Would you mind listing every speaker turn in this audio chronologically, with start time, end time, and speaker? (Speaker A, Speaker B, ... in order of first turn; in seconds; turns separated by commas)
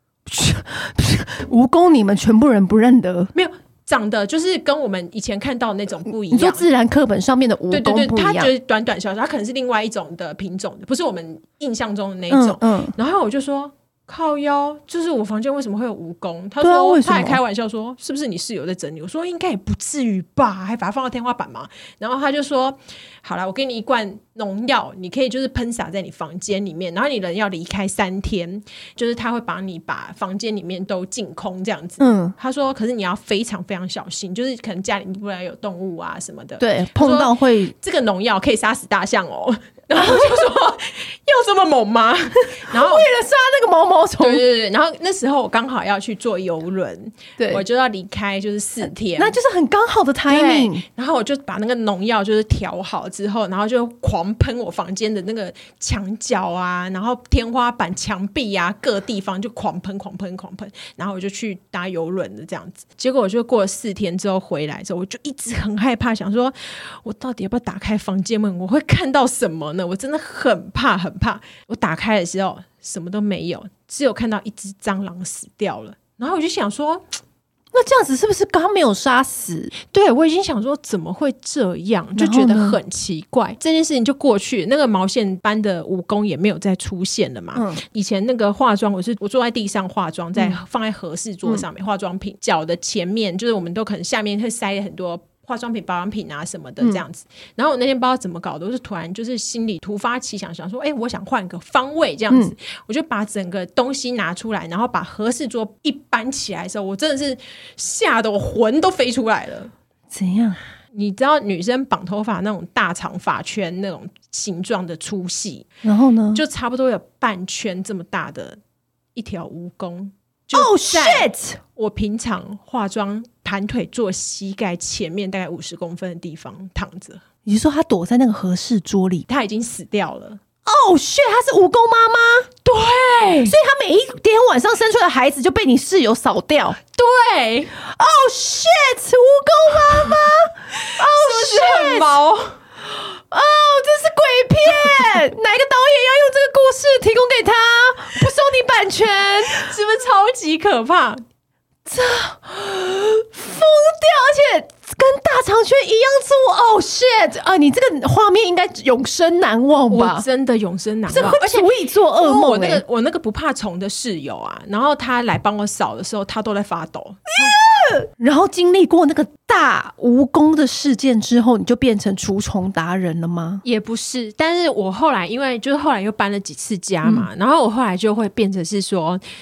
Speaker A: 0.2-3.3, Speaker B: 3.3-6.7, Speaker A: 6.1-8.5, Speaker B: 7.7-43.0, Speaker A: 12.3-12.9, Speaker A: 16.6-17.4, Speaker A: 32.0-32.3, Speaker A: 36.6-37.7, Speaker A: 39.9-40.5, Speaker A: 42.7-44.4, Speaker B: 44.2-49.4, Speaker A: 47.4-47.6, Speaker A: 49.1-50.8, Speaker B: 50.3-77.0, Speaker A: 77.7-79.7, Speaker B: 79.9-109.7, Speaker A: 82.2-82.8, Speaker A: 87.5-87.8, Speaker A: 110.1-110.6, Speaker B: 110.9-115.7, Speaker A: 115.8-116.4, Speaker B: 116.3-118.6, Speaker B: 119.1-127.2, Speaker A: 120.5-121.6, Speaker A: 127.5-129.2, Speaker B: 129.3-130.4, Speaker A: 130.7-132.5, Speaker B: 132.6-133.6, Speaker A: 133.4-136.8, Speaker B: 136.9-137.7, Speaker A: 137.9-142.1, Speaker B: 140.8-142.6, Speaker A: 143.0-149.7, Speaker B: 149.5-151.2, Speaker A: 151.8-160.2, Speaker B: 159.9-167.6, Speaker A: 161.1-162.8, Speaker A: 167.4-173.6, Speaker B: 173.6-179.2